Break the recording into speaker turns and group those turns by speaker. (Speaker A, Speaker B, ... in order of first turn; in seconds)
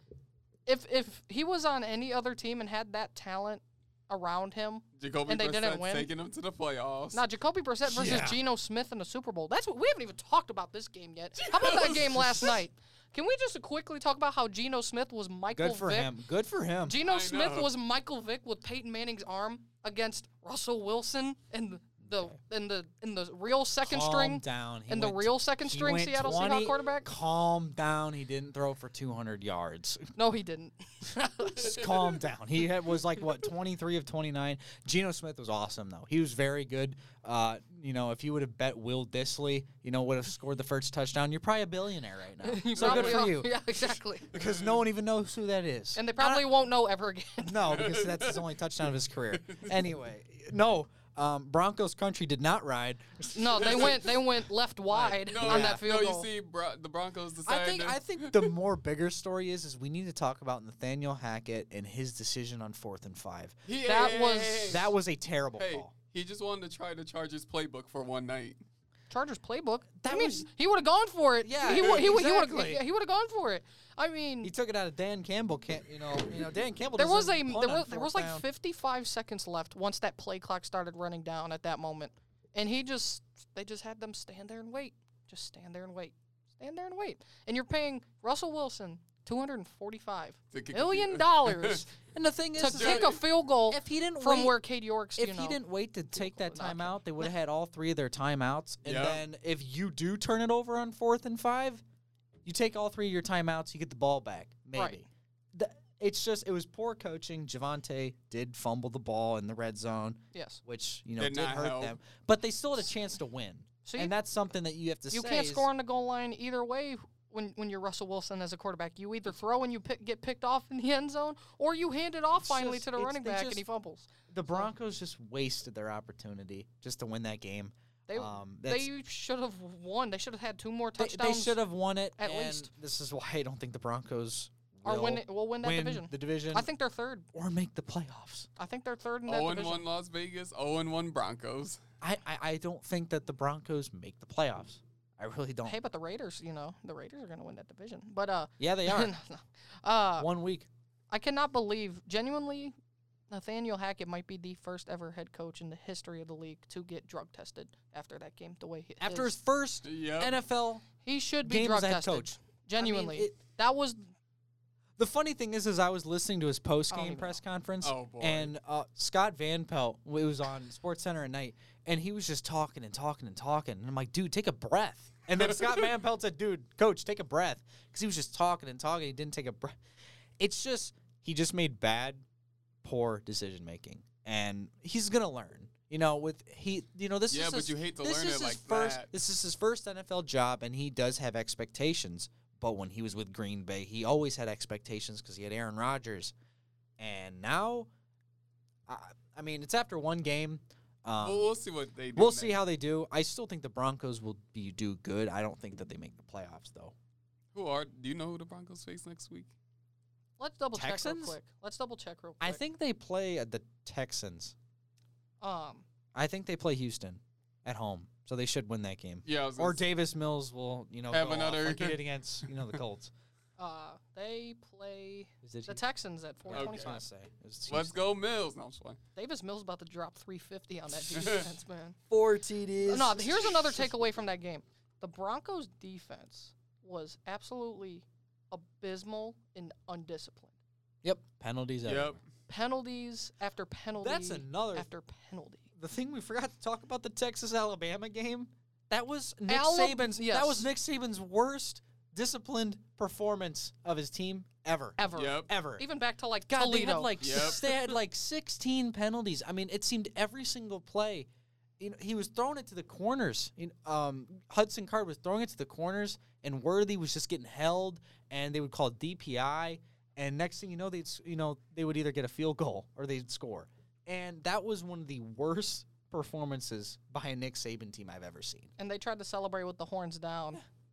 Speaker A: 0.7-6.1, 7.1-16.1, 16.9-27.1, 30.1-31.9, 42.4-44.3, 45.9-47.8, 53.3-56.3, 63.8-64.8, 69.1-74.5, 77.0-91.9, 92.6-95.6, 96.1-97.2, 104.7-105.0, 110.3-110.6, 113.8-114.1, 115.1-124.7, 128.1-131.6, 132.2-132.7, 134.8-137.3, 138.6-139.8, 145.6-150.3, 151.1-152.7, 153.3-159.3, 161.0-164.1, 166.9-167.4, 210.4-212.6, 215.4-215.8, 223.6-227.0, 229.2-232.0, 232.8-240.6, 242.5-245.7, 249.5-250.7, 255.0-257.7, 278.8-280.6
Speaker B: 5.0-7.2, 11.4-12.6, 17.0-17.7, 44.3-44.6, 47.7-48.5, 49.4-49.7, 53.6-54.0, 54.9-58.5, 63.6-64.9, 65.6-68.6, 71.7-72.0, 90.5-91.8, 92.7-93.2, 98.8-99.2, 111.2-112.0, 139.3-141.8, 159.8-160.3, 167.8-168.5, 187.3-189.1, 201.2-202.6, 207.5-209.5, 219.2-219.8, 221.1-222.0, 226.5-227.0, 227.7-229.0, 231.1-231.5, 241.8-242.2, 255.1-255.5, 257.2-257.6
Speaker C: 7.9-8.4, 15.5-17.0, 23.8-30.1, 31.6-43.6, 44.3-46.5, 47.4-53.9, 55.0-55.8, 57.4-63.5, 64.7-65.9, 70.0-70.5, 71.4-72.8, 74.4-78.4, 92.1-94.6, 95.2-101.8, 102.4-115.7, 122.4-123.6, 124.3-128.9, 131.0-136.7, 137.3-138.5, 142.0-145.8, 148.6-149.1, 150.2-150.7, 159.0-160.9, 161.4-163.3, 165.0-179.8, 180.4-182.2, 182.8-196.3, 197.0-197.9, 198.9-201.5, 202.1-206.9, 210.7-211.4, 212.4-214.5, 216.1-223.1, 225.4-225.8, 226.4-228.0, 232.1-233.7, 241.0-242.2, 244.0-244.9, 245.8-255.8, 256.5-261.3, 261.8-278.7